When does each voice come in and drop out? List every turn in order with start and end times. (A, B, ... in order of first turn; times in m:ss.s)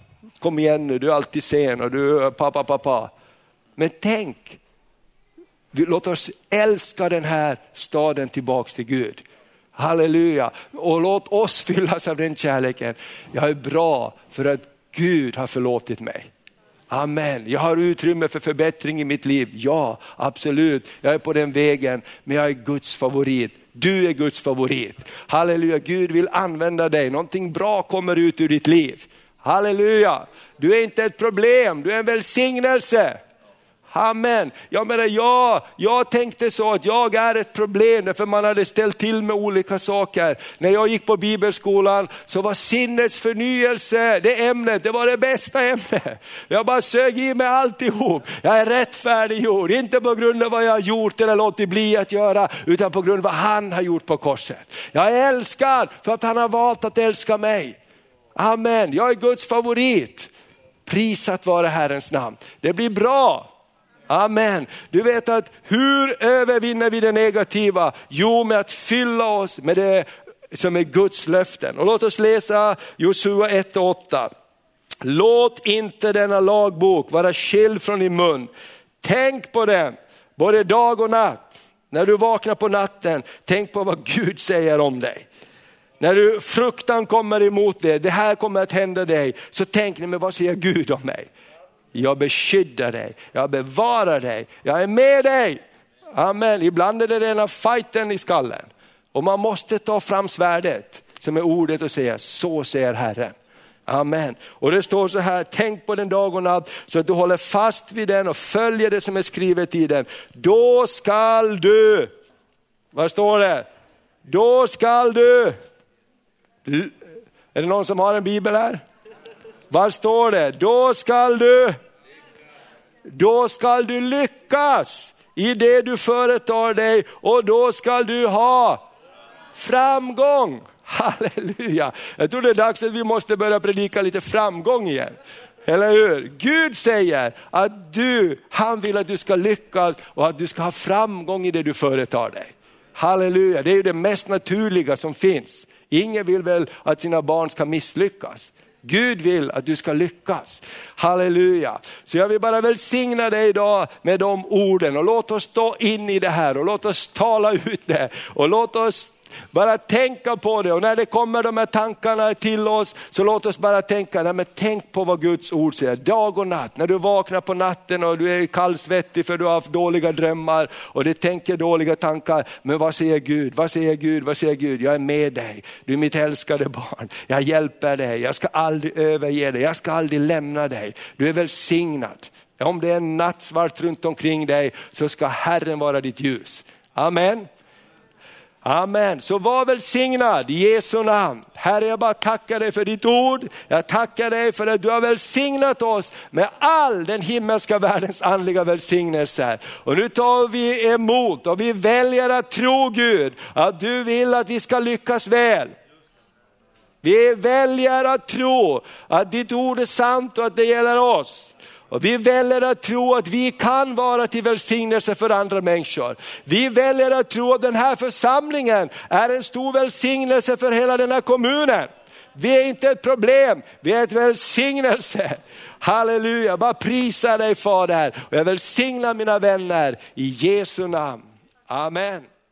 0:00.4-0:03.1 A
0:03.8-0:04.6 A
0:05.7-0:09.2 A
0:09.8-0:16.3 A
0:16.9-0:33.2 A
0:33.9-0:57.8 A
0:58.3-1:00.3 A
1:00.8-1:03.5 A
1:04.1-1:14.3 A
1:15.0-1:18.5 A
1:19.0-1:25.2 A
1:26.0-1:31.3 A
1:31.9-1:35.6 A
1:36.1-1:43.4 A
1:43.9-1:52.1 A
1:52.9-1:53.7 A
1:54.3-1:55.6 A
1:56.6-1:57.0 A
1:57.5-1:58.8 A
1:59.7-2:01.8 A
2:03.1-2:08.8 A
2:09.5-3:07.5 A
3:08.6-3:25.7 A
3:27.0-3:52.3 A